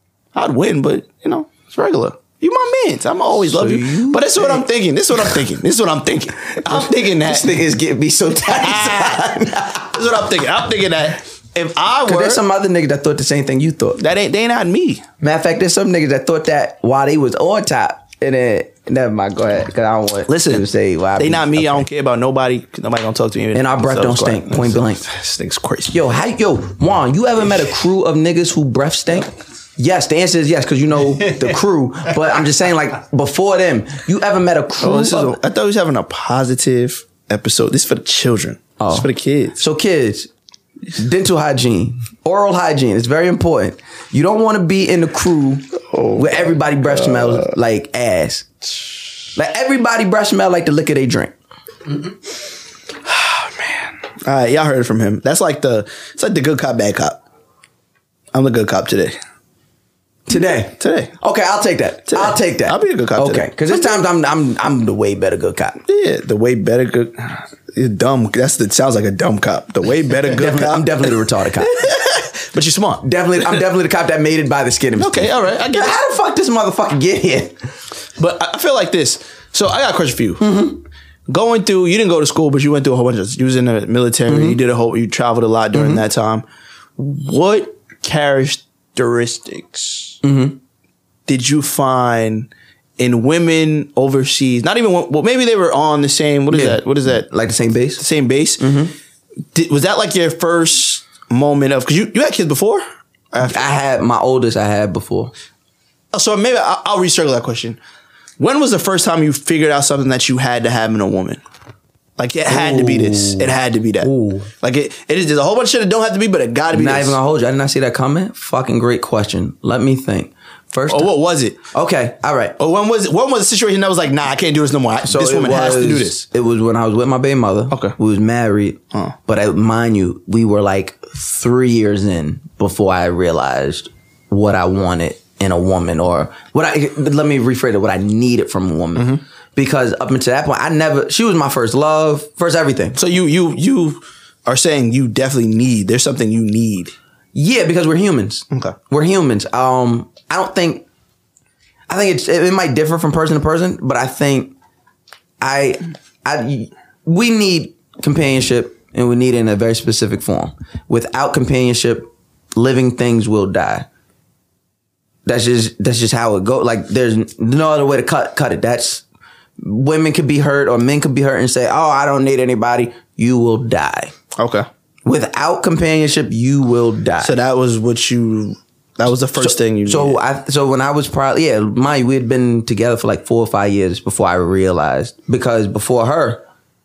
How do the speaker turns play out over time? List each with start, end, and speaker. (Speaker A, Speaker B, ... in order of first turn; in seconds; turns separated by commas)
Speaker A: 0.3-7.6, Speaker B: 3.5-4.6, Speaker B: 6.6-9.9, Speaker A: 8.5-12.4, Speaker B: 12.1-14.0, Speaker A: 14.0-15.1, Speaker B: 15.2-21.9, Speaker A: 20.3-20.7, Speaker A: 21.2-26.0, Speaker B: 23.5-25.0, Speaker B: 25.9-35.4, Speaker A: 34.8-39.6, Speaker B: 38.8-40.3, Speaker B: 40.9-48.5, Speaker A: 45.9-47.5, Speaker B: 49.4-51.3, Speaker A: 53.1-57.2, Speaker A: 58.3-59.2, Speaker B: 60.3-65.8, Speaker A: 60.8-61.1, Speaker A: 62.1-64.0, Speaker A: 65.9-73.6, Speaker B: 70.3-71.8, Speaker B: 73.0-77.6, Speaker A: 75.0-76.0, Speaker A: 78.2-80.5, Speaker B: 80.4-80.8, Speaker A: 81.3-86.4, Speaker B: 84.3-84.6, Speaker B: 85.7-86.0, Speaker A: 87.0-90.2, Speaker B: 90.2-90.6, Speaker A: 91.3-97.3, Speaker B: 96.5-98.0, Speaker A: 98.0-98.6, Speaker B: 98.6-98.9, Speaker A: 99.5-103.7, Speaker B: 103.4-105.3, Speaker A: 106.1-107.8, Speaker A: 108.4-111.4, Speaker A: 112.2-117.2, Speaker B: 112.5-114.5, Speaker B: 116.7-121.1, Speaker A: 120.9-121.6, Speaker B: 121.7-122.6, Speaker A: 122.6-126.2, Speaker B: 125.0-143.0, Speaker A: 139.0-139.2, Speaker A: 143.0-146.9, Speaker B: 147.3-150.8, Speaker B: 151.9-154.5, Speaker B: 155.4-163.9, Speaker B: 165.2-169.0, Speaker B: 169.6-174.1, Speaker A: 174.4-174.7, Speaker B: 175.1-177.4, Speaker A: 177.2-180.2, Speaker B: 179.4-186.4